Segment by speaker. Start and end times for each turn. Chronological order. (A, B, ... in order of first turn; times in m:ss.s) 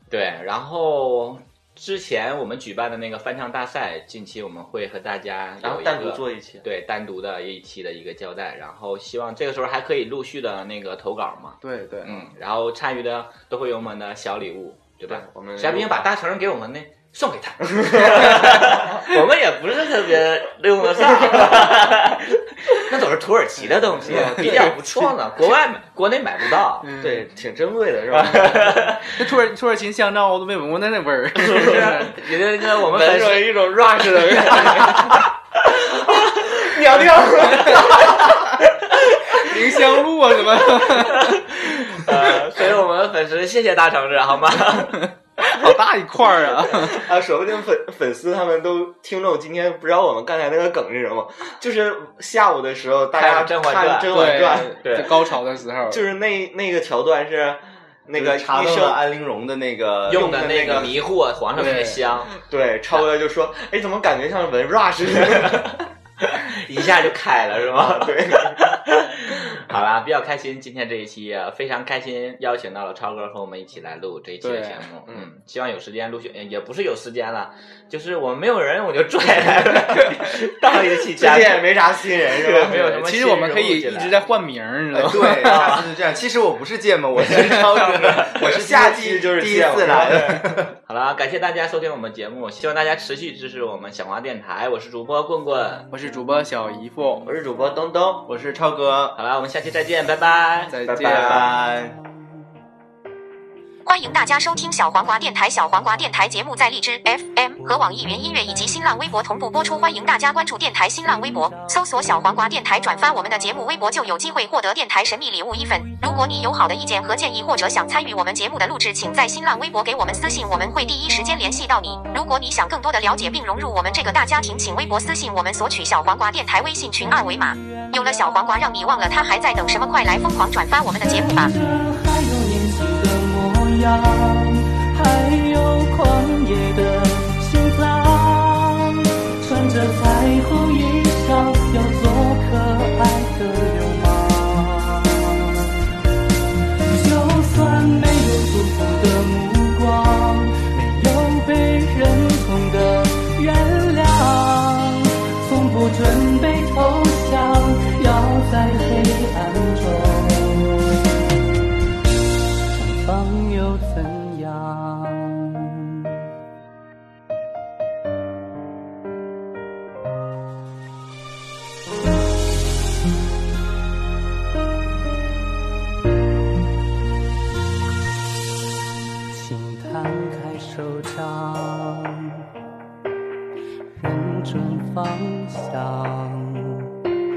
0:00.1-0:26.9 A
0:05.6-0:06.6 B
0:11.6-0:12.3 C
0:15.1-0:16.0 B
0:17.7-0:18.4 B
0:21.0-0:21.7 B
0:23.6-0:25.1 B
0:26.8-0:27.2 C
0:27.0-0:28.8 B
0:28.1-0:29.1 A
0:29.1-0:32.1 C
0:31.5-0:31.7 B
0:31.5-0:35.2 A
0:32.8-0:38.4 B
0:37.7-0:38.2 A
0:39.4-0:41.4 C
0:40.8-0:45.1 A
0:44.9-0:47.0 C
0:46.8-0:54.8 B
0:53.1-0:55.1 A
0:54.1-0:56.0 C
0:55.9-0:59.0 B
0:58.1-1:01.0 D
1:00.1-1:03.1 A
1:00.1-1:01.0 B
1:01.6-1:02.0 C
1:02.4-1:05.7 B
1:05.2-1:24.2 A
1:07.6-1:08.6 B
1:14.4-1:14.8 C
1:21.1-1:22.8 B
1:22.7-1:25.6 C
1:24.9-1:30.7 D
1:25.4-1:25.8 A
1:25.5-1:25.8 B
1:27.2-1:28.4 A
1:28.2-1:30.6 B
1:30.9-1:35.9 A
1:35.9-1:37.3 C
1:37.2-1:38.3 B
1:38.3-1:39.2 D
1:39.2-1:41.5 A
1:40.7-1:41.4 C
1:40.8-1:41.6 B
1:41.0-1:42.0 D
1:43.8-2:11.5 E
1:47.9-1:48.6 F
1:51.2-1:53.3 F
1:55.8-1:56.4 F
2:00.2-2:01.2 F
2:07.0-2:08.0 F
2:11.0-2:25.7 F
2:26.9-2:41.0 F
2:42.7-2:46.0 F
2:59.3-3:02.4 F
3:04.0-3:06.9 F